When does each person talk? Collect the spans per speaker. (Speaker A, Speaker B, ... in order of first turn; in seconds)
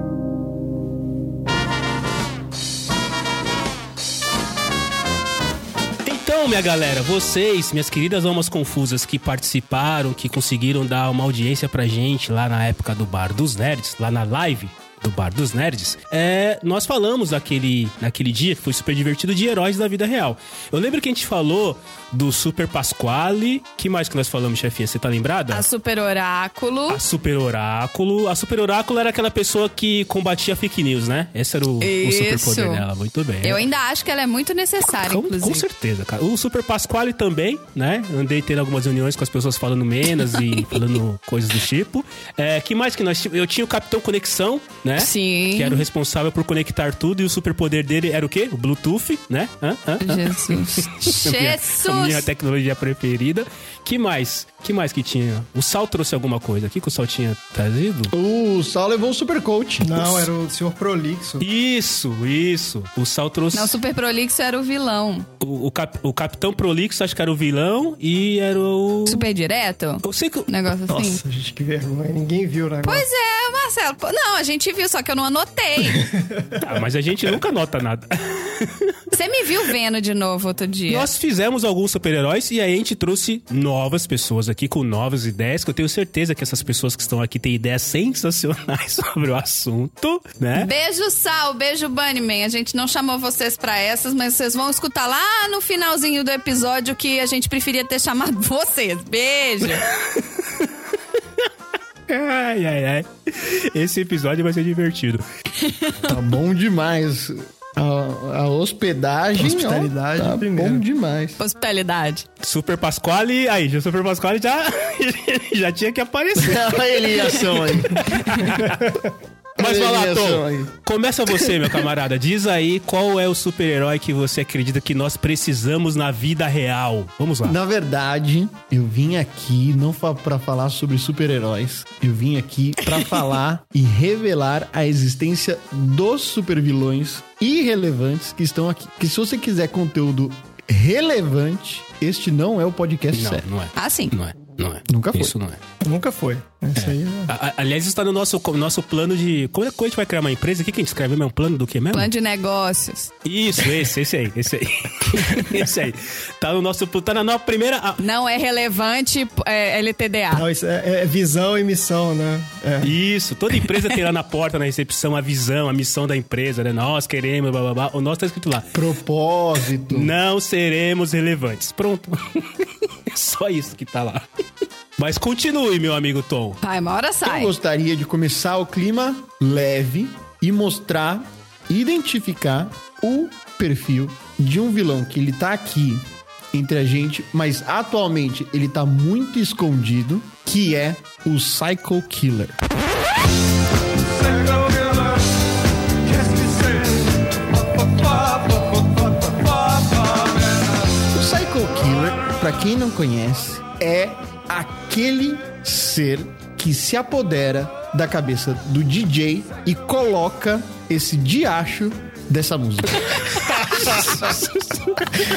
Speaker A: 6.0-25.6, 26.9-33.7, 35.0-58.1, 61.4-63.8, 65.4-69.3, 70.0-70.5, 76.6-78.9, 80.9-90.7, 100.1-100.7, 102.1-105.2, 112.4-118.8, 119.6-127.6, 143.1-145.6, 146.8-152.1, 153.2-158.0, 162.8-168.7, 169.9-174.2, 175.0-176.6, 213.4-215.2
Speaker B: 25.5-27.0, 31.8-32.8, 33.4-35.6, 45.0-45.9, 50.0-52.2, 63.5-65.3, 69.1-71.2, 72.8-76.1, 79.1-81.1, 90.5-99.8, 105.6-106.1, 111.4-112.2, 143.8-144.1, 151.9-153.1, 158.0-160.4, 176.6-177.5
Speaker C: 58.1-60.1, 106.0-111.4, 116.3-118.4, 119.6-120.7, 127.4-143.4, 144.9-145.3, 168.7-170.1, 177.2-192.6, 196.1-197.0, 197.9-199.5, 201.0-213.2
Speaker D: 59.8-61.5, 70.9-73.0, 75.9-76.6, 109.3-110.8, 118.6-119.1, 145.8-147.3, 160.3-162.9